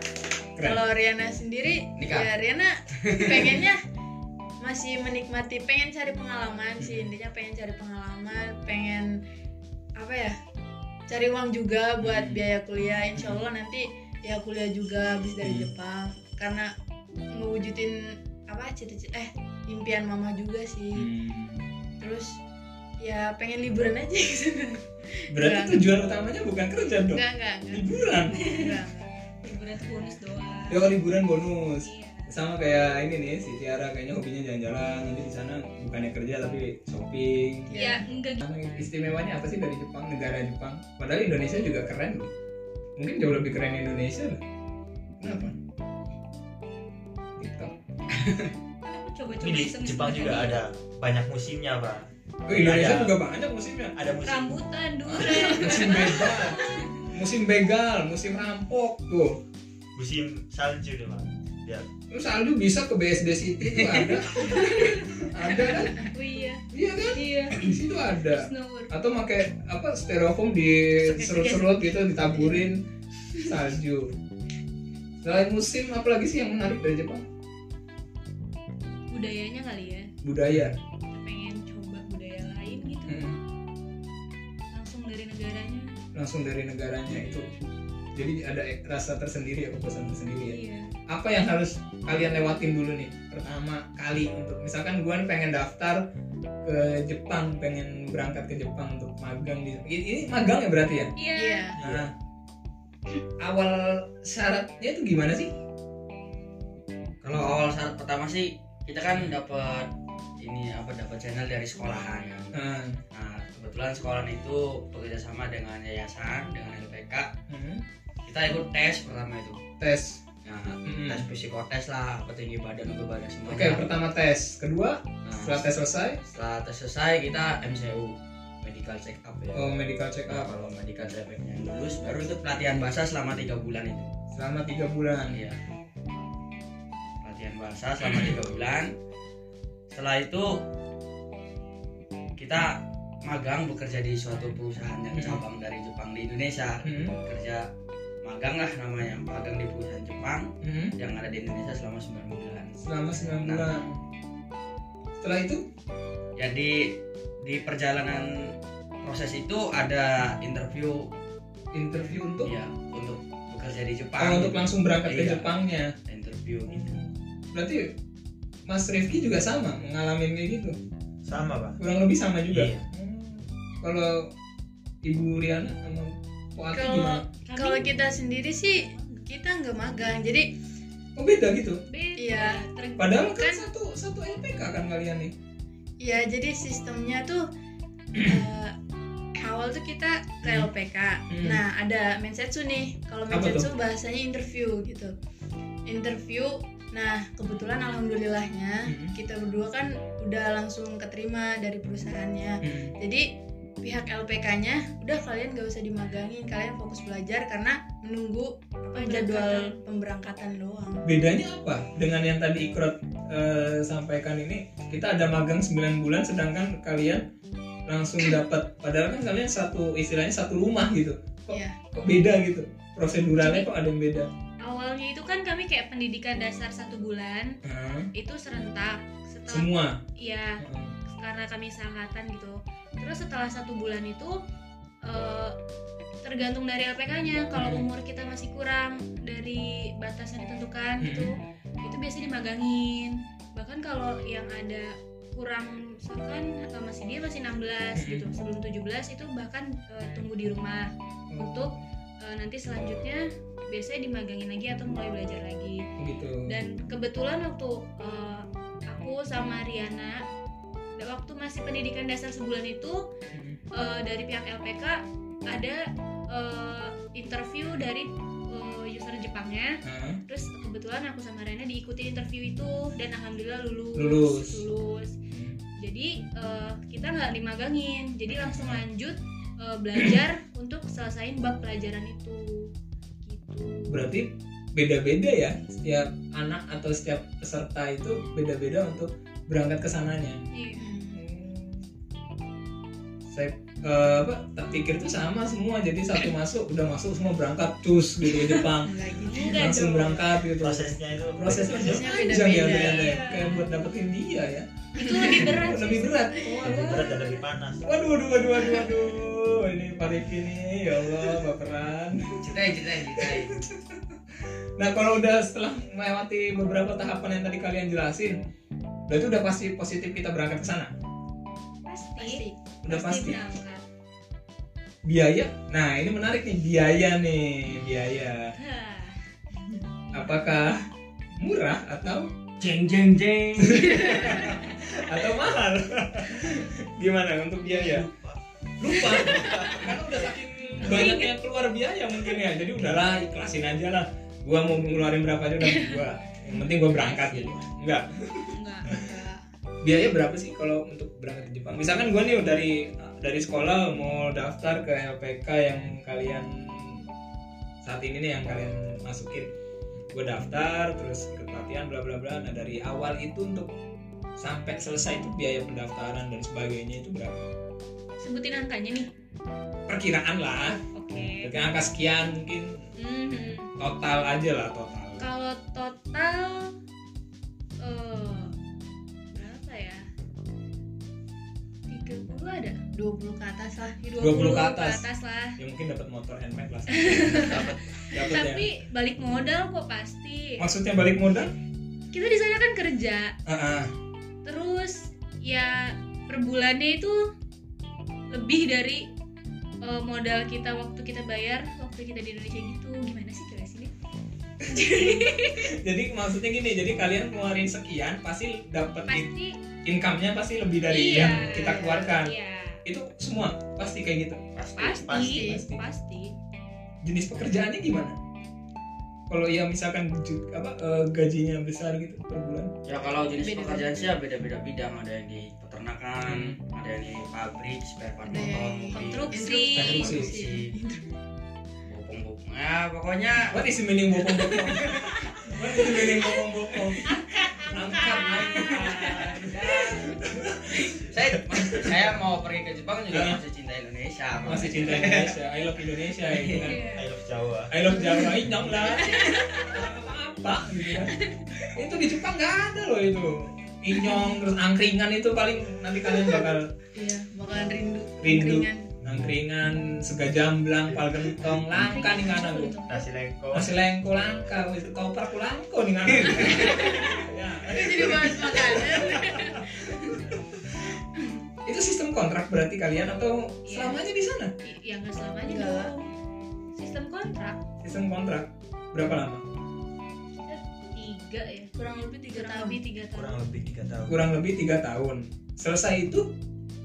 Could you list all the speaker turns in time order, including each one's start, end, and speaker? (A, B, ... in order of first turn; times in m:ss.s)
0:00.6-0:00.8 A
0:00.6-0:03.8 B
0:02.0-0:02.3 C
0:03.0-0:03.6 C
0:04.6-0:09.2 B
0:06.8-0:07.1 A
0:10.0-0:10.4 B
0:11.1-0:16.7 B
0:12.0-0:12.4 A
0:13.1-0:13.4 A
0:15.4-0:15.7 A
0:17.3-0:21.1 B
0:20.9-0:21.7 A
0:22.0-0:22.4 B
0:23.0-0:25.9 B
0:25.3-0:28.6 A
0:27.1-0:29.1 B
0:28.4-0:28.8 D
0:29.4-0:31.0 D
0:30.7-0:42.3 A
0:31.8-0:32.3 D
0:37.7-0:38.0 B
0:37.8-0:38.4 D
0:43.0-0:44.4 A
0:45.2-0:45.6 A
0:47.4-0:47.7 A
0:48.1-0:48.5 C
0:48.8-0:50.6 D
0:49.4-0:53.1 E
0:52.5-0:53.9 A
0:53.9-0:56.0 E
0:54.2-0:57.0 D
0:55.3-0:59.4 A
0:59.9-1:01.9 E
1:02.1-1:06.1 A
1:04.5-1:05.0 D
1:05.7-1:07.7 D
1:06.7-1:12.8 A
1:08.3-1:08.9 D
1:11.2-1:11.7 D
1:13.4-1:14.1 A
1:15.2-1:17.2 A
1:19.1-1:20.1 D
1:20.2-1:20.8 A
1:21.1-1:23.2 D
1:23.1-1:23.4 A
1:24.7-1:26.0 D
1:26.1-1:27.5 A
1:28.1-1:36.0 A
1:30.4-1:30.9 D
1:36.6-1:41.1 A
1:41.2-1:41.7 D
1:41.3-1:41.8 B
1:41.8-1:42.1 A
1:41.8-1:42.1 E
1:43.4-1:45.5 A
1:47.2-1:52.5 C
1:52.5-1:53.0 A
1:53.1-1:57.3 C
1:57.5-1:57.8 A
1:58.2-1:59.6 C
1:59.8-2:00.2 A
2:00.4-2:03.9 C
2:00.8-2:01.3 A
2:03.4-2:06.2 A
2:05.2-2:05.6 C
2:06.3-2:09.7 C
2:09.5-2:10.5 A
2:10.3-2:14.1 C
2:14.3-2:15.4 A
2:15.3-2:15.6 C
2:17.2-2:18.9 C
2:18.1-2:18.4 A
2:19.9-2:20.6 C
2:22.4-2:27.7 C
2:25.1-2:25.4 A
2:26.8-2:27.2 A
2:28.2-2:32.8 C
2:30.6-2:30.9 A
2:32.8-2:34.0 A
2:33.4-2:33.7 C
2:35.2-2:35.6 A
2:36.4-2:38.5 C
2:39.0-2:41.1 C
2:41.7-2:42.5 A
2:42.4-2:45.5 C
2:44.2-2:45.9 A
2:46.1-2:47.0 C
2:46.7-2:47.9 A
2:48.7-2:50.8 A
2:51.2-2:51.8 E
2:51.8-2:54.3 A
2:52.5-2:52.8 E
2:55.0-2:57.3 A
2:56.7-3:00.5 B
2:57.4-2:57.9 D
2:58.7-2:59.3 D
3:01.2-3:01.8 A
3:01.9-3:03.2 D
3:02.2-3:02.6 B
3:03.0-3:05.3 A
3:03.3-3:03.6 B
3:06.0-3:07.4 B
3:08.1-3:08.4 A
3:08.2-3:08.7 B
3:09.4-3:15.1 B
3:10.4-3:10.7 A
3:11.3-3:11.6 A
3:13.3-3:13.7 A
3:15.9-3:23.3 B
3:18.8-3:19.1 A
3:22.6-3:22.9 A
3:23.8-3:31.0 B
3:28.9-3:29.8 D
3:31.0-3:37.2 A
3:37.9-3:44.3 A
3:41.5-3:41.8 B
3:43.4-3:43.7 D
3:44.6-3:47.6 D
3:47.6-3:48.1 A
3:48.1-3:54.4 D
3:49.5-3:50.0 A
3:50.6-3:50.9 A
3:55.0-3:55.6 D
3:56.2-4:15.8 D
3:57.5-3:57.8 A
4:01.0-4:01.3 A
4:07.9-4:08.3 A
4:11.3-4:11.7 A
4:16.0-4:16.6 A
4:16.5-4:20.2 D
4:21.0-4:23.0 D
4:23.3-4:23.6 A
4:23.7-4:35.2 D
4:29.8-4:30.2 A
4:34.0-4:34.6 A
4:35.3-4:35.6 A
4:35.8-4:42.7 D
4:38.3-4:38.8 A
4:43.2-4:44.0 D
4:43.9-4:50.5 A
4:50.5-4:50.8 D
4:50.8-4:51.2 B
4:51.1-4:51.8 A
4:53.3-5:07.1 A
4:58.8-4:59.7 B
4:59.2-5:00.4 D
5:00.6-5:02.0 E
5:01.7-5:03.2 B
5:02.1-5:03.7 D
5:05.0-5:07.4 D
5:05.0-5:05.6 B
5:06.6-5:07.8 E
5:07.8-5:18.4 A
5:12.4-5:13.5 C
5:19.1-5:20.9 A
5:21.8-5:23.8 D
5:22.2-5:22.6 B
5:22.8-5:23.4 A
5:25.0-5:28.5 A
5:28.6-5:29.2 D
5:30.1-5:30.4 D
5:30.1-5:30.8 A
5:31.4-5:32.3 A
5:32.6-5:34.4 C
5:33.6-5:38.1 A
5:37.7-5:38.4 E
5:38.8-5:49.1 A
5:39.0-5:39.7 E
5:39.4-5:39.8 C
5:39.5-5:39.8 D
5:40.8-5:41.3 D
5:45.6-5:46.0 D
5:47.2-5:47.5 C
5:48.5-5:49.0 D
5:48.8-5:49.4 B
5:49.8-5:57.0 A
5:57.8-5:59.5 A
6:00.1-6:03.7 A
6:04.4-6:07.5 A
6:08.2-6:09.1 D
6:09.9-6:12.8 A
6:10.9-6:11.5 D
6:13.0-6:13.7 D
6:13.8-6:15.3 A
6:15.2-6:16.7 D
6:17.8-6:18.5 D
6:19.3-6:20.1 D
6:21.9-6:22.8 D
6:22.9-6:24.0 B
6:24.0-6:25.6 D
6:24.2-6:25.0 A
6:25.6-6:28.7 A
6:26.9-6:30.6 D
6:30.6-6:31.5 A
6:32.1-6:33.3 D
6:33.4-6:33.9 A
6:34.4-6:37.3 D
6:38.3-6:39.1 D
6:39.8-6:43.9 D
6:44.6-6:49.3 A
6:44.7-6:45.7 D
6:49.1-6:49.6 D
6:49.8-6:52.3 A
6:50.9-6:52.8 D
6:51.5-6:52.1 B
6:52.8-6:54.4 A
6:54.6-6:55.4 C
6:54.8-6:56.4 D
6:55.1-6:55.4 E
6:55.1-6:55.6 B
6:55.4-6:55.8 A
6:57.0-6:58.2 A
6:59.3-7:02.7 A
7:02.8-7:10.7 C
7:03.4-7:03.9 B
7:06.2-7:06.6 A
7:08.3-7:11.1 B
7:08.9-7:10.0 D
7:09.8-7:10.3 A
7:11.8-7:13.6 C
7:13.5-7:22.1 A
7:14.6-7:15.1 C
7:17.0-7:19.7 D
7:19.1-7:20.0 C
7:21.0-7:25.4 C
7:23.1-7:23.4 A
7:24.4-7:26.9 A
7:26.3-7:26.7 C
7:26.6-7:27.0 D
7:26.9-7:27.8 E
7:27.7-7:31.2 A
7:28.8-7:29.7 B
7:29.0-7:29.7 D
7:31.7-7:36.7 A
7:36.9-7:38.9 B
7:38.2-7:42.8 A
7:41.7-7:43.0 D
7:42.1-7:42.5 B
7:42.9-7:43.7 E
7:43.5-7:50.6 A
7:46.5-7:47.2 B
7:47.7-7:50.1 B
7:51.6-7:54.5 A
7:53.7-7:54.0 D
7:54.6-7:56.1 D
7:55.4-7:55.9 B
7:56.7-7:57.6 D
7:57.8-7:59.4 A
8:00.4-8:01.7 D
8:01.7-8:02.8 B
8:02.3-8:03.4 D
8:03.1-8:04.2 E
8:04.1-8:06.3 A